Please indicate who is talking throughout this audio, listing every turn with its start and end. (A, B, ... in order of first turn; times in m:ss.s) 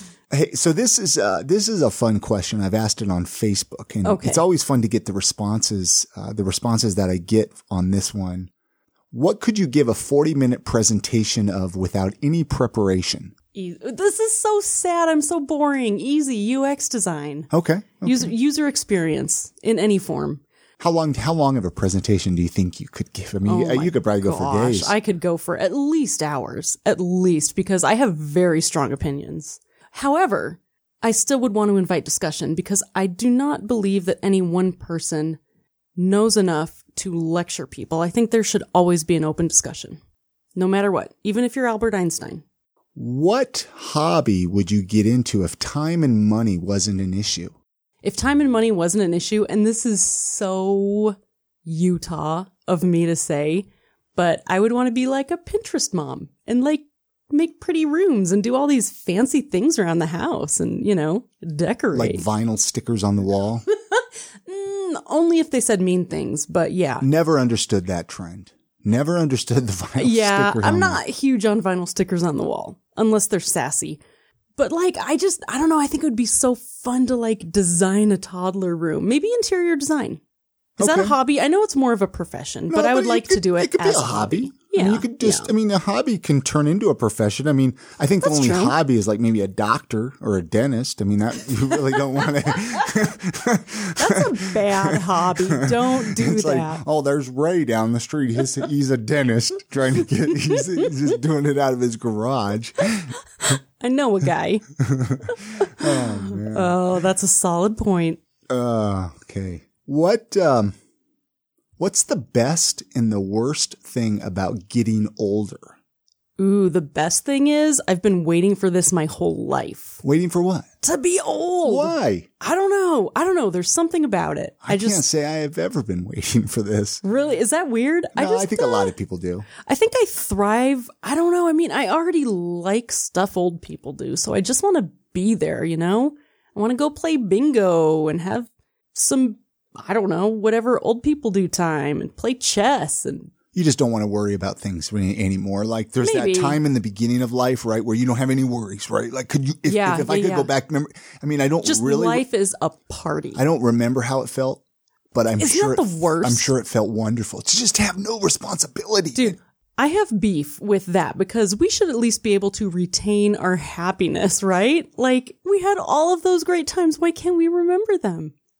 0:00.3-0:08.5 A
0:04.0-0:04.4 B
0:09.1-0:13.3 A
0:13.5-0:17.5 B
0:17.5-0:18.3 A
0:18.0-0:20.4 B
0:20.8-0:24.9 A
0:23.4-0:35.4 B
0:36.0-0:40.0 B
0:40.6-0:42.4 B
0:43.0-0:47.5 A
0:48.0-1:02.2 B
1:01.9-1:03.6 A
1:03.9-1:07.0 B
1:07.0-1:11.0 A
1:10.0-1:14.0 B
1:14.6-1:20.2 B
1:20.8-1:21.2 A
1:20.8-1:25.5 B
1:22.7-1:43.1 A
1:28.2-1:28.8 B
1:34.0-1:36.8 B
1:43.4-1:44.6 B
1:44.8-1:46.8 A
1:45.3-1:48.2 B
1:48.5-1:50.7 A
1:51.8-1:55.7 A
1:56.4-2:00.0 B
2:00.0-2:00.6 A
2:00.8-2:05.0 B
2:01.6-2:02.3 A
2:04.6-2:07.0 A
2:07.0-2:08.9 B
2:08.1-2:09.5 A
2:09.6-2:23.3 B
2:23.5-2:32.2 A
2:26.0-2:26.6 B
2:29.6-2:30.5 B
2:31.6-2:33.4 B
2:33.3-2:34.6 A
2:35.1-2:39.4 A
2:35.4-2:36.5 B
2:39.1-2:48.3 B